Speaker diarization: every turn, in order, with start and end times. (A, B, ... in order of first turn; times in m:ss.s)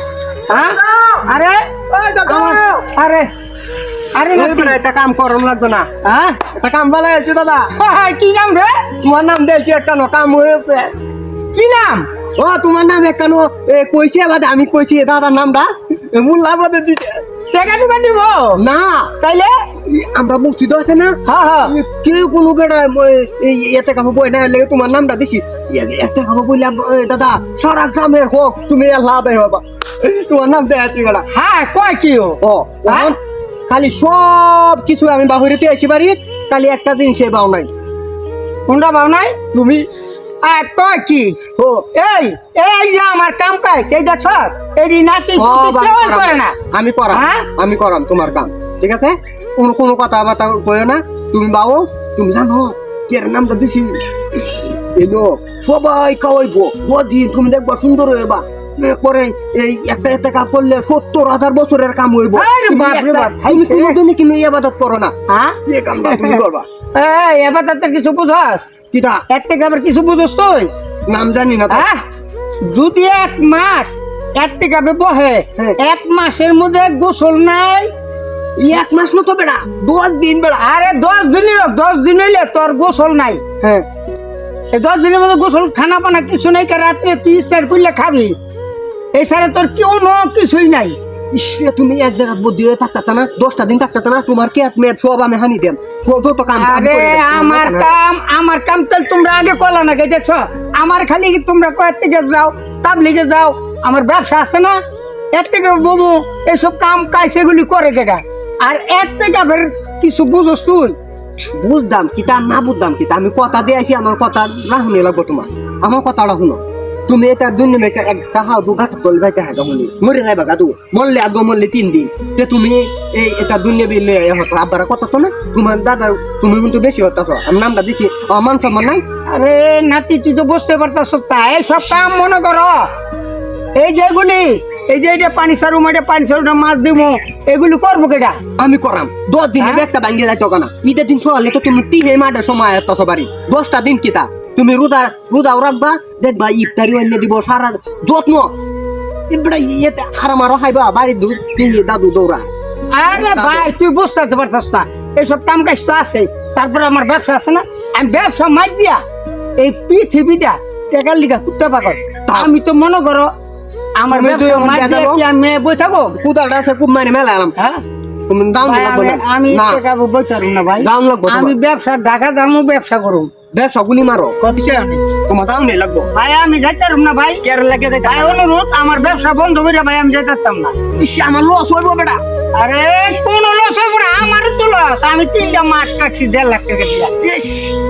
0:00.5-0:01.7 A
0:00.7-0:01.2 B
0:01.9-0:02.9 B
0:02.2-0:03.3 A
0:04.1-0:04.8 A
0:04.3-0:05.9 B
0:06.0-0:06.4 A
0:06.5-0:07.7 B
0:07.8-0:08.8 A
0:09.0-0:10.9 B
0:11.5-0:12.1 A
0:12.4-0:17.2 B
0:17.5-0:18.6 A
0:18.6-0:19.1 B
0:19.2-0:19.6 A
0:19.8-0:31.2 B
0:21.2-0:21.7 A
0:31.3-0:33.1 A
0:32.4-0:33.2 B
0:33.7-0:37.7 B
0:38.7-0:39.4 A
0:39.5-0:39.8 B
0:40.4-0:41.4 A
0:41.6-0:41.8 B
0:41.9-0:46.6 A
0:45.4-1:05.1 B
0:47.1-0:47.5 A
1:02.3-1:04.0 A
1:05.3-1:06.4 A
1:05.6-1:06.6 B
1:06.9-1:08.7 A
1:08.9-1:09.2 B
1:09.3-1:10.7 A
1:11.1-1:11.9 B
1:11.7-1:12.0 A
1:12.6-1:17.9 A
1:18.6-1:20.6 B
1:20.6-1:23.4 A
1:23.6-1:23.8 B
1:24.7-1:28.3 A
1:29.1-1:31.0 A
1:31.3-1:37.9 B
1:36.6-1:44.8 A
1:45.3-1:50.9 A
1:51.6-2:09.0 B
2:09.3-2:12.9 A
2:13.8-2:18.4 A
2:18.6-2:28.5 B
2:19.6-2:19.8 A
2:29.3-2:32.5 B
2:32.9-2:39.0 A
2:33.1-2:33.7 B
2:39.6-2:43.3 A
2:42.2-2:42.5 B
2:44.0-2:46.2 A
2:44.1-2:45.2 B
2:46.2-2:47.5 B
2:47.6-2:47.8 A
2:48.3-2:49.8 B
2:48.6-2:53.3 A
2:50.8-2:51.5 B
2:53.5-2:54.4 B
2:54.4-2:55.0 A
2:55.3-2:56.1 B
2:56.1-2:57.4 A
2:57.4-2:58.4 B
2:58.0-3:00.9 A
3:01.0-3:02.2 B
3:02.6-3:07.1 A
3:07.2-3:07.7 B